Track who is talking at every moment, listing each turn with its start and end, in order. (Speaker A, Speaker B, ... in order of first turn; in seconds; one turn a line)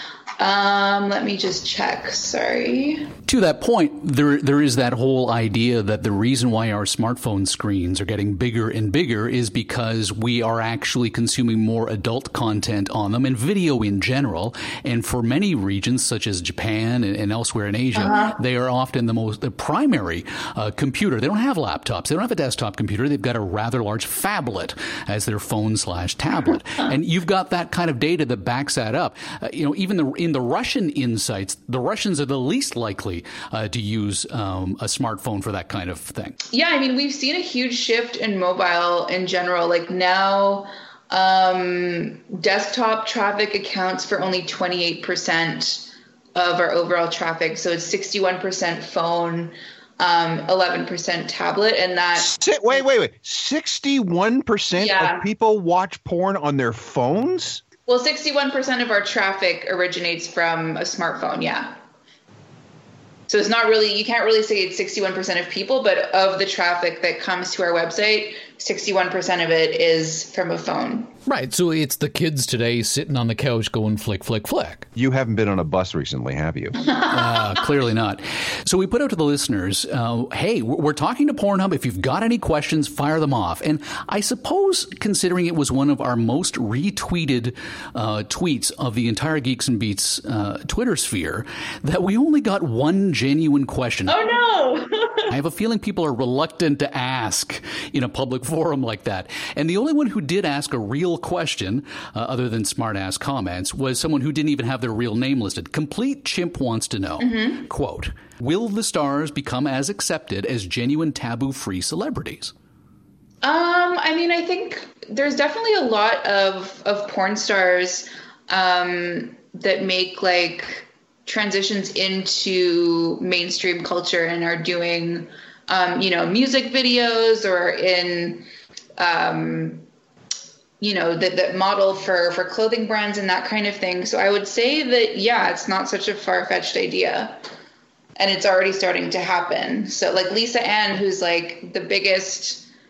Speaker A: 0.4-3.1
Speaker B: 3.3-36.4
Speaker A: 18.0-18.4
Speaker A: 36.5-52.3
Speaker C: 52.1-57.6
Speaker A: 54.8-55.3
Speaker A: 57.9-61.8
Speaker A: 63.3-71.1
Speaker B: 71.3-74.9
Speaker C: 75.0-76.8
Speaker B: 77.0-94.3
Speaker A: 94.1-95.3
Speaker B: 95.3-112.5
Speaker A: 107.2-107.7
Speaker A: 113.4-129.8
Speaker A: 130.8-137.4
Speaker A: 138.2-142.7